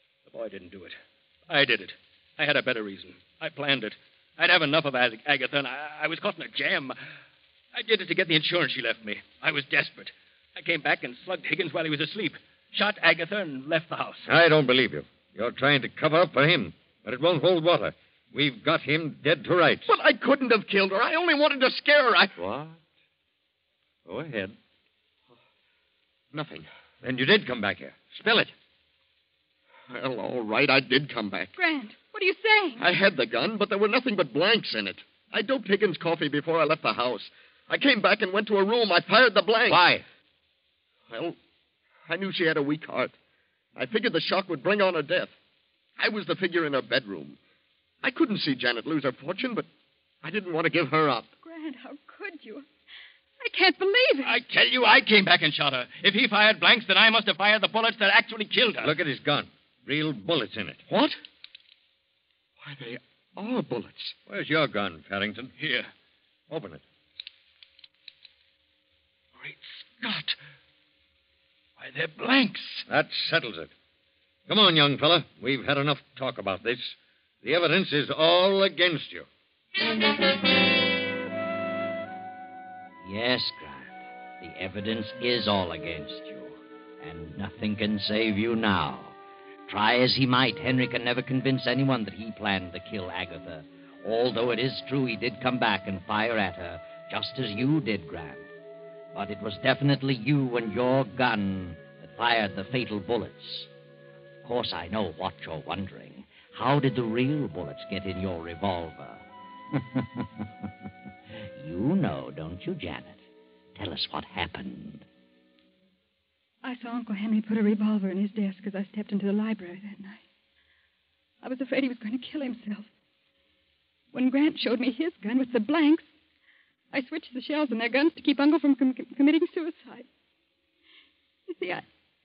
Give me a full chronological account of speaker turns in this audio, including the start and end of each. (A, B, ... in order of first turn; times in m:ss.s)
0:00.3-0:01.0 A
0:01.5-0:07.0 A
0:07.7-0:14.3 A
0:14.3-0:19.9 B
0:19.9-0:22.4 C
0:22.4-0:22.8 B
0:24.1-0:24.6 B
0:26.3-0:26.7 C
0:27.0-0:28.5 B
0:28.2-0:28.5 C
0:29.9-0:31.5 C
0:31.6-0:32.8 D
0:32.8-0:39.9 C
0:39.7-0:40.0 B
0:41.1-0:41.4 C
0:42.1-0:43.1 C
0:43.8-0:45.4 C
0:46.0-0:47.4 C
0:48.0-0:49.7 C
0:50.2-0:51.3 C
0:51.4-0:52.7 D
0:53.4-0:54.4 D
0:54.2-0:59.0 A
0:58.8-1:00.8 B
1:00.9-1:01.2 C
1:02.6-1:04.2 C
1:04.3-1:05.5 B
1:05.6-1:05.9 A
1:06.5-1:06.8 B
1:09.4-1:10.4 A
1:11.8-1:12.8 A
1:12.9-1:13.7 B
1:14.5-1:19.3 B
1:23.0-1:29.2 E
1:29.7-1:38.5 E
1:39.1-1:43.7 E
1:44.4-1:50.5 E
1:51.6-1:53.2 E
1:53.8-1:55.0 E
1:56.6-2:00.2 D
2:01.4-2:02.9 D
2:04.1-2:06.1 D
2:06.9-2:10.1 D
2:11.5-2:11.8 D